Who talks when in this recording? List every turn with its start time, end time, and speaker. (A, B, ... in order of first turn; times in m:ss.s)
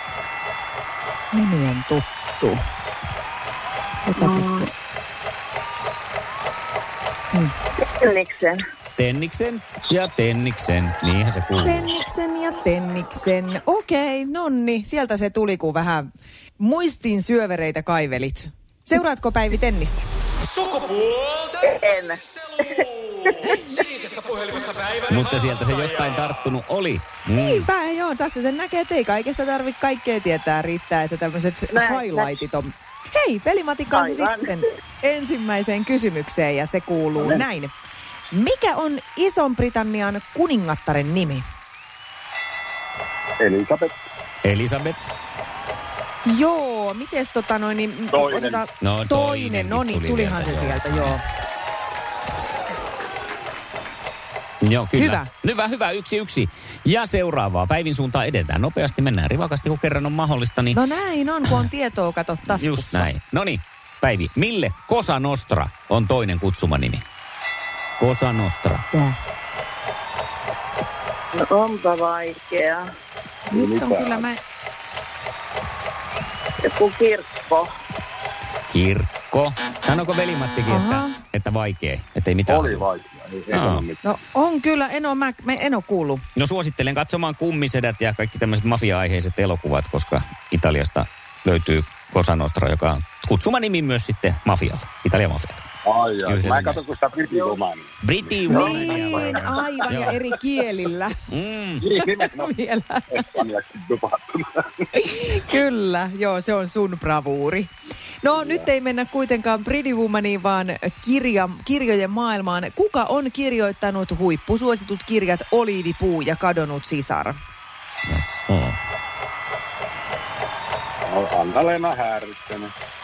0:01.3-0:02.6 A
0:04.1-0:04.7 A
0:04.2-0:04.7 B
0:07.8-0:08.6 B
0:09.0-0:12.0 C
0:11.6-0:16.1 A
0:16.6-0:20.1 A
0:20.4-0:26.0 D
0:21.6-0:23.8 B
0:25.1-0:27.7 C
0:27.3-0:37.7 A
0:31.7-0:32.4 B
0:33.9-0:34.6 B
0:37.2-0:37.4 E
0:38.3-0:41.4 A
0:43.4-0:43.9 E
0:44.4-0:45.0 C
0:46.2-0:51.2 A
0:48.1-0:48.6 E
0:48.8-0:51.2 C
0:54.6-1:00.8 C
0:54.9-0:55.3 A
1:00.7-1:03.1 A
1:02.5-1:07.0 C
1:08.0-1:08.9 C
1:11.3-1:12.9 B
1:13.5-1:14.3 E
1:13.5-1:14.4 A
1:16.6-1:17.7 B
1:18.7-1:22.8 C
1:20.7-1:21.2 A
1:22.5-1:24.0 E
1:23.5-1:23.9 C
1:24.0-1:26.2 A
1:26.4-1:35.6 C
1:35.8-1:39.4 E
1:36.3-1:36.8 C
1:37.3-1:37.6 B
1:38.0-1:40.2 C
1:38.5-1:41.2 A
1:41.3-1:41.9 C
1:41.8-1:42.6 E
1:42.0-1:43.3 A
1:43.1-1:44.9 E
1:45.0-1:47.7 A
1:48.2-1:57.4 A
1:48.4-1:48.7 E
1:58.1-1:58.8 C
2:01.1-2:02.7 E